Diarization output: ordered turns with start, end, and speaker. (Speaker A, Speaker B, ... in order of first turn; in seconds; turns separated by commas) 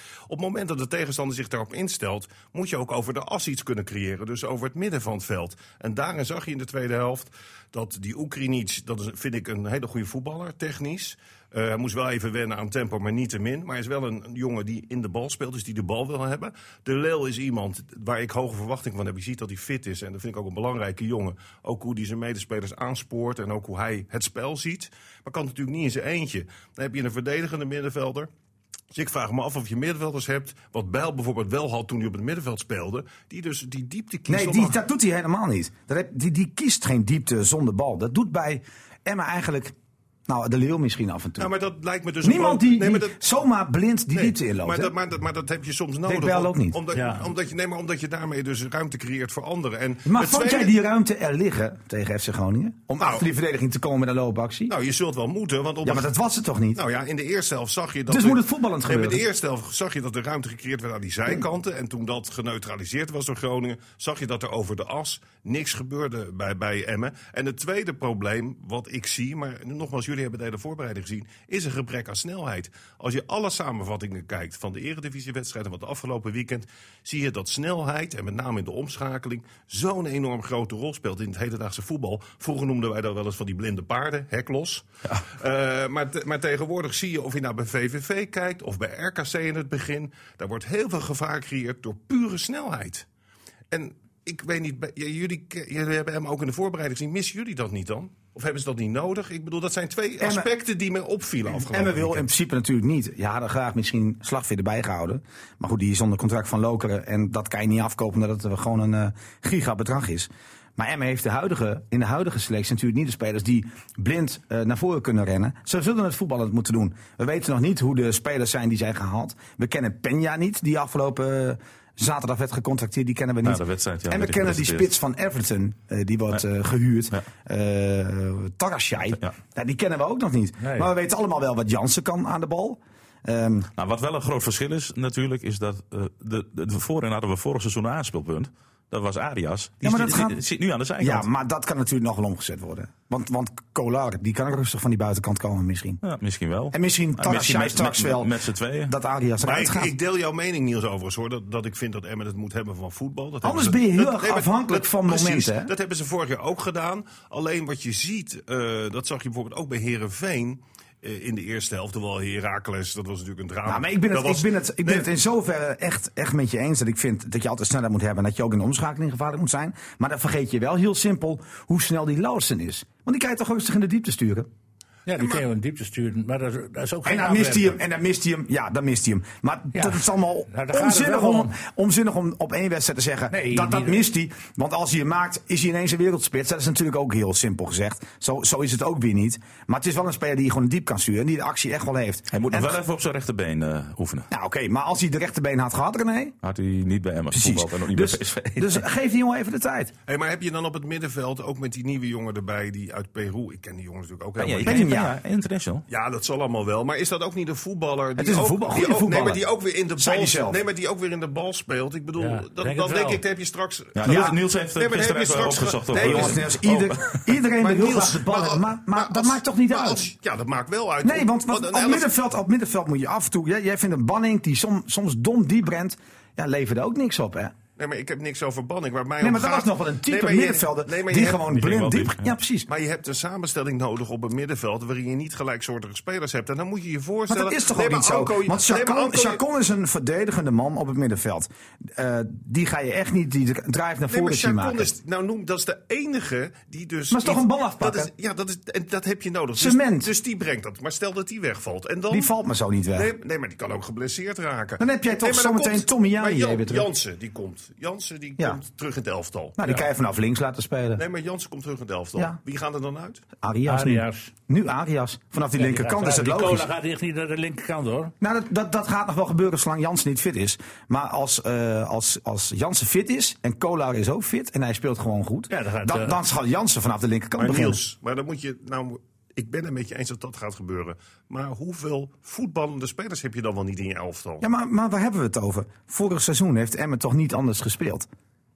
Speaker A: 0.3-28.3, Speaker A: 28.9-34.8, Speaker B: 34.3-39.8, Speaker B: 40.3-41.5, Speaker A: 41.4-43.2, Speaker B: 42.2-44.9, Speaker A: 44.1-50.7, Speaker B: 46.1-46.8, Speaker C: 46.9-47.3, Speaker B: 50.0-54.8, Speaker A: 53.0-53.3, Speaker A: 54.7-56.1, Speaker B: 55.8-56.8, Speaker A: 56.8-93.1, Speaker B: 58.1-59.2, Speaker A: 93.7-102.3, Speaker B: 100.2-100.5, Speaker B: 101.5-133.7, Speaker D: 123.4-124.9, Speaker C: 130.6-130.9, Speaker D: 133.8-141.3, Speaker B: 139.8-140.4, Speaker B: 141.0-146.0, Speaker D: 146.0-148.9, Speaker B: 146.7-148.3, Speaker B: 148.9-149.9, Speaker A: 149.4-165.1, Speaker B: 153.4-155.7, Speaker B: 163.7-174.5, Speaker C: 175.1-177.8, Speaker B: 177.1-192.8, Speaker C: 179.7-181.6, Speaker C: 183.3-184.1, Speaker D: 192.3-194.3, Speaker B: 194.3-196.4, Speaker D: 196.4-198.8, Speaker B: 197.3-199.9, Speaker A: 200.1-204.9, Speaker D: 204.4-205.8, Speaker B: 204.7-205.2, Speaker A: 205.9-216.4, Speaker B: 208.2-209.4, Speaker B: 210.0-210.6, Speaker C: 212.2-213.2, Speaker D: 213.9-217.2, Speaker B: 214.0-214.4, Speaker B: 215.9-220.1, Speaker A: 217.6-222.1, Speaker B: 221.0-227.6, Speaker A: 227.8-231.5, Speaker B: 229.2-232.7, Speaker D: 231.4-232.3, Speaker A: 232.7-239.4, Speaker B: 237.3-244.9, Speaker A: 244.1-252.3, Speaker B: 247.1-248.1, Speaker B: 249.6-250.1, Speaker B: 252.1-253.1, Speaker A: 252.9-259.6, Speaker B: 254.8-256.9, Speaker B: 259.6-261.0, Speaker A: 261.0-263.2, Speaker B: 263.4-266.7, Speaker C: 263.6-264.3, Speaker C: 265.5-268.1, Speaker B: 268.2-277.8, Speaker C: 275.5-276.2, Speaker A: 277.4-284.5, Speaker B: 284.4-288.1